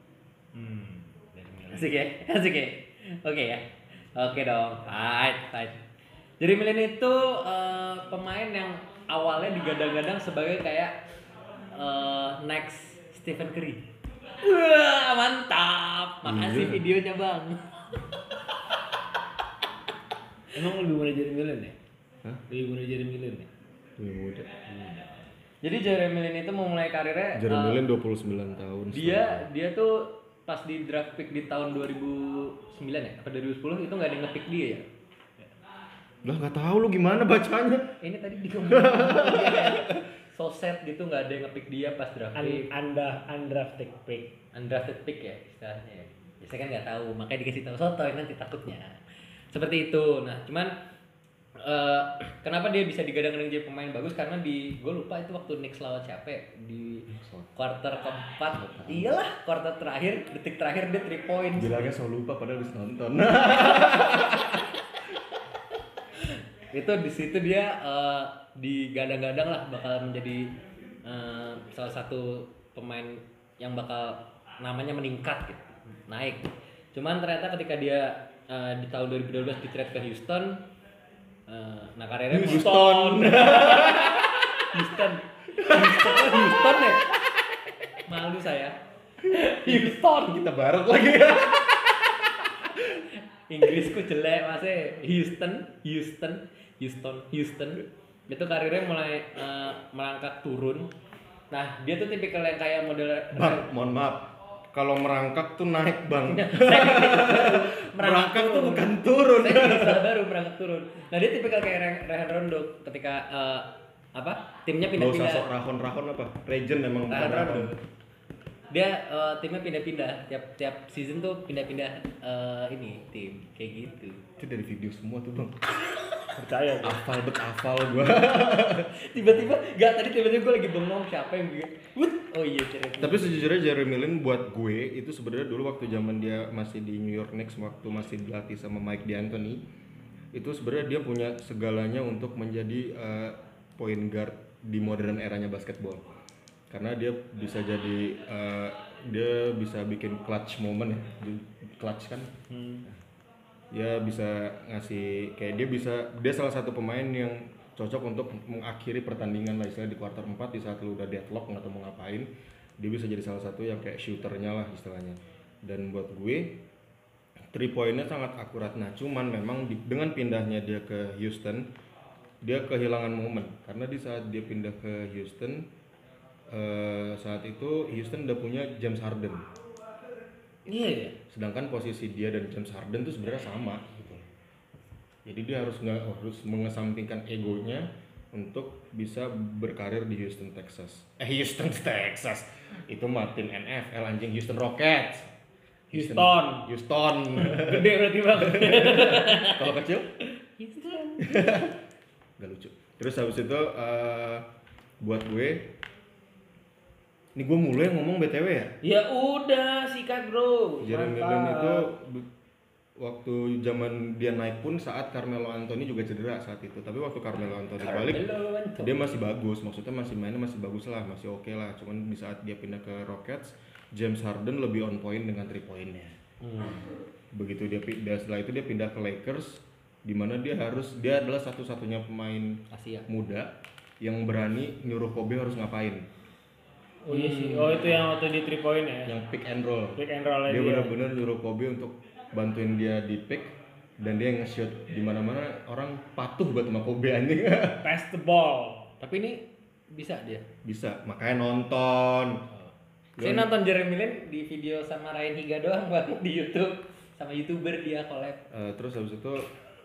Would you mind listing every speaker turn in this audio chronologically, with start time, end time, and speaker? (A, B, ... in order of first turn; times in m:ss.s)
0:00.5-0:01.9 A
0:01.7-0:05.8 B
0:06.4-0:11.0 B
0:11.7-0:13.9 B
0:14.4-0:17.8 B
0:16.2-0:16.8 C
0:20.5-0:21.7 A
0:22.5-0:23.5 A
0:24.0-0:24.5 C
0:24.7-0:25.0 A
0:25.6-0:27.8 B
0:27.3-0:29.4 C
0:28.9-0:34.8 B
0:36.2-0:37.9 C
0:38.0-0:42.7 B
0:38.6-0:40.0 C
0:42.4-0:44.3 A
0:44.5-0:49.0 B
0:49.5-0:50.8 B
0:51.6-1:01.9 B
0:57.1-0:57.5 C
0:58.5-0:59.1 C
1:01.6-1:04.8 C
1:06.7-1:10.5 B
1:11.0-1:20.6 B
1:21.5-1:27.0 B
1:22.3-1:24.4 C
1:22.5-1:24.0 A
1:25.5-1:26.9 C
1:28.0-1:28.8 B
1:29.3-1:33.0 C
1:29.3-1:30.5 B
1:33.5-1:40.9 B
1:41.5-1:43.7 B
1:43.3-1:50.1 C
1:46.3-1:55.4 B
1:54.9-1:57.7 C
1:57.1-1:57.8 B
1:58.7-2:04.2 B
2:04.4-2:05.6 C
2:06.3-2:07.0 A
2:06.8-2:08.9 C
2:08.9-2:13.5 B
2:13.0-2:19.6 C
2:20.3-2:26.0 C
2:26.7-2:32.3 C
2:32.5-2:32.8 A
2:33.7-2:46.6 C
2:47.5-2:51.7 C
2:52.4-2:55.6 C
2:56.5-2:59.5 C
3:00.7-3:01.1 A
3:01.3-3:04.2 C
3:05.2-3:15.3 C
3:15.9-3:20.1 C
3:15.9-3:16.7 A
3:17.3-3:19.7 A
3:20.6-3:21.6 A
3:20.7-3:21.1 B
3:21.2-3:21.7 C
3:22.4-3:24.4 C
3:25.0-3:25.7 C
3:27.3-3:28.7 C
3:28.8-3:31.9 A
3:30.8-3:32.3 C
3:33.0-3:46.2 C
3:37.8-3:39.2 B
3:46.4-3:46.9 B
3:47.3-3:56.0 C
3:52.7-3:53.1 B
3:57.1-3:59.1 A
3:57.1-3:58.0 B
3:59.0-4:07.8 C
4:00.0-4:00.9 A
4:07.8-4:08.9 A
4:09.0-4:10.4 B
4:10.6-4:12.4 C
4:13.2-4:13.5 C
4:13.2-4:18.4 B
4:18.5-4:19.5 C